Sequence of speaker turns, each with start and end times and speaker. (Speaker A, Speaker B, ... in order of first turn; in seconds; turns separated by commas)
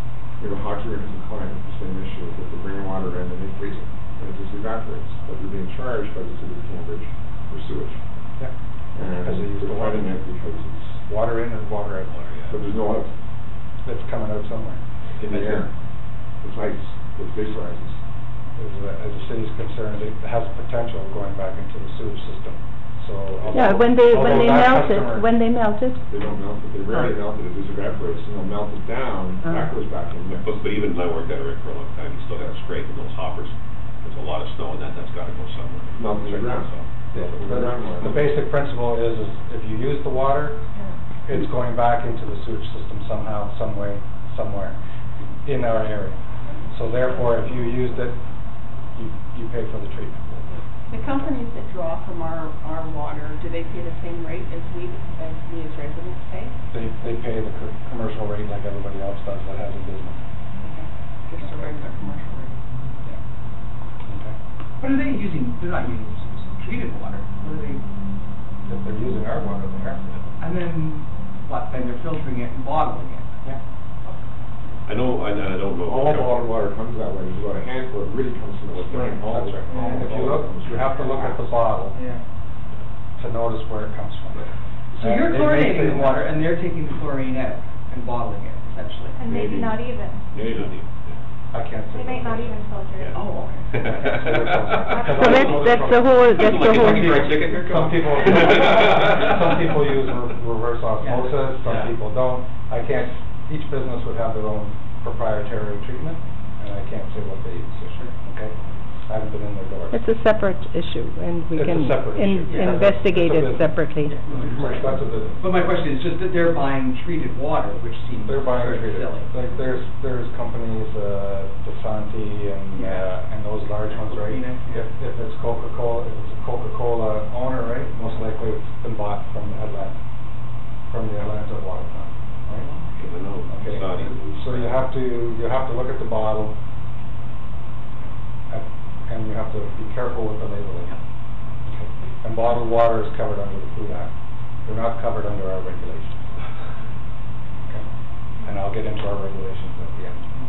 Speaker A: 0.4-8.0, Speaker A: 8.9-11.0, Speaker B: 9.2-10.1, Speaker B: 11.1-12.2, Speaker C: 12.1-12.6, Speaker A: 12.5-13.1, Speaker B: 13.8-14.8, Speaker A: 15.2-15.7, Speaker C: 15.2-15.7, Speaker A: 16.4-18.0, Speaker B: 18.6-25.3, Speaker D: 23.5-26.0, Speaker A: 26.1-30.5, Speaker C: 30.4-38.2, Speaker A: 36.0-38.3, Speaker B: 37.1-40.6, Speaker B: 41.2-44.8, Speaker B: 45.5-48.2, Speaker B: 49.0-50.5, Speaker E: 50.9-56.5, Speaker B: 51.0-51.3, Speaker B: 56.7-60.2, Speaker E: 60.6-62.6, Speaker B: 61.4-61.8, Speaker B: 64.1-64.4, Speaker F: 64.8-67.8, Speaker B: 68.7-70.2, Speaker F: 70.4-73.4, Speaker C: 74.8-76.4, Speaker A: 75.8-81.6, Speaker B: 79.3-82.0, Speaker F: 79.7-80.2, Speaker F: 81.9-82.2, Speaker B: 83.2-84.5, Speaker F: 85.0-89.2, Speaker B: 85.0-86.2, Speaker G: 89.2-90.3, Speaker A: 89.3-90.8, Speaker C: 90.3-90.9, Speaker B: 91.5-92.6, Speaker G: 91.9-93.1, Speaker F: 93.1-94.2, Speaker C: 93.7-99.4, Speaker B: 93.8-108.5, Speaker D: 95.1-97.2, Speaker F: 101.0-101.9, Speaker B: 109.1-110.0, Speaker D: 109.9-114.2, Speaker B: 111.5-113.8, Speaker F: 112.5-112.8, Speaker F: 114.1-119.3, Speaker B: 114.3-115.4, Speaker B: 118.2-130.0, Speaker F: 122.7-123.2, Speaker F: 123.8-124.9, Speaker B: 130.9-132.7, Speaker F: 132.6-132.9, Speaker C: 132.9-134.9, Speaker B: 133.5-136.6, Speaker B: 138.5-141.0, Speaker B: 141.7-144.1, Speaker B: 144.7-146.2, Speaker B: 148.4-150.3